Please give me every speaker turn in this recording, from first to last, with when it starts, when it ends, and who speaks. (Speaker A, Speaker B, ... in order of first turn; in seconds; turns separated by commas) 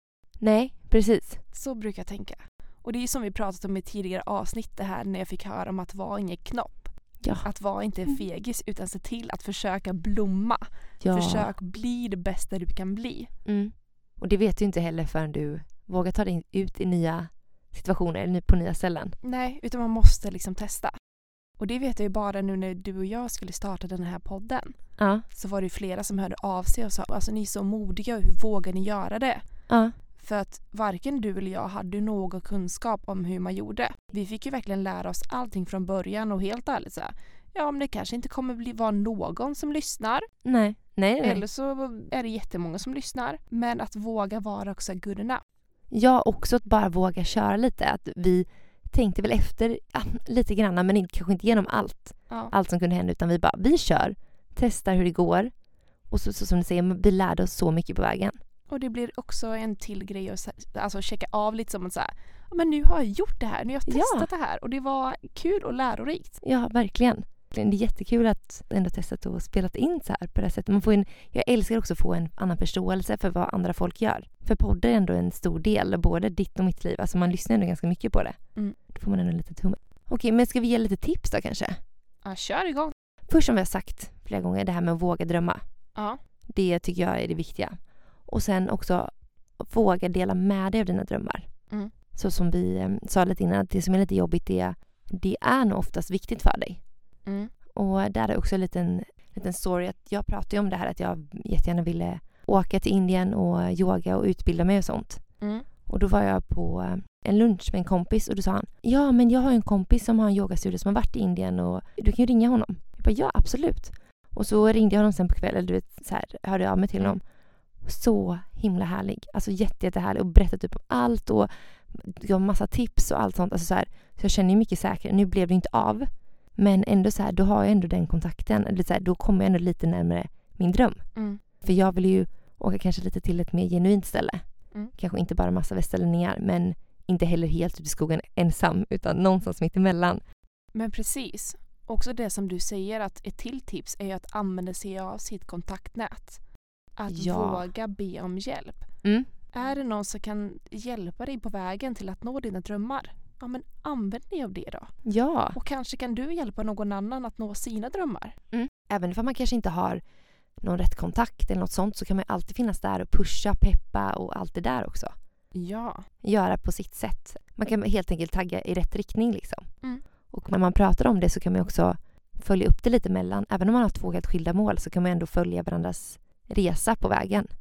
Speaker A: 0.4-1.4, Speaker B: 1.5-6.9, Speaker B: 7.4-13.3, Speaker A: 11.0-11.5, Speaker A: 13.4-19.1, Speaker B: 19.2-20.9, Speaker B: 21.6-24.8, Speaker A: 25.0-25.2, Speaker B: 25.3-29.4, Speaker A: 29.7-29.9, Speaker B: 30.2-40.3, Speaker A: 40.4-41.4, Speaker B: 41.2-45.4, Speaker A: 45.9-55.5, Speaker A: 56.1-58.4, Speaker B: 58.7-66.4, Speaker A: 63.9-64.3, Speaker A: 66.4-78.4, Speaker A: 78.9-81.8, Speaker B: 82.2-82.9, Speaker A: 83.3-85.6, Speaker A: 86.5-87.7, Speaker A: 88.2-91.5, Speaker A: 92.1-96.8, Speaker B: 97.2-97.5, Speaker A: 97.7-105.2, Speaker A: 105.9-117.2, Speaker A: 117.8-131.0, Speaker A: 131.6-134.4, Speaker A: 134.9-140.2, Speaker B: 140.7-146.4, Speaker B: 147.0-148.9, Speaker A: 147.1-147.7, Speaker A: 149.0-149.3, Speaker B: 149.5-154.9, Speaker A: 155.0-155.6, Speaker B: 155.5-158.3, Speaker A: 158.5-160.0, Speaker A: 160.6-165.1, Speaker B: 165.5-166.1, Speaker A: 166.2-169.7, Speaker A: 170.3-177.5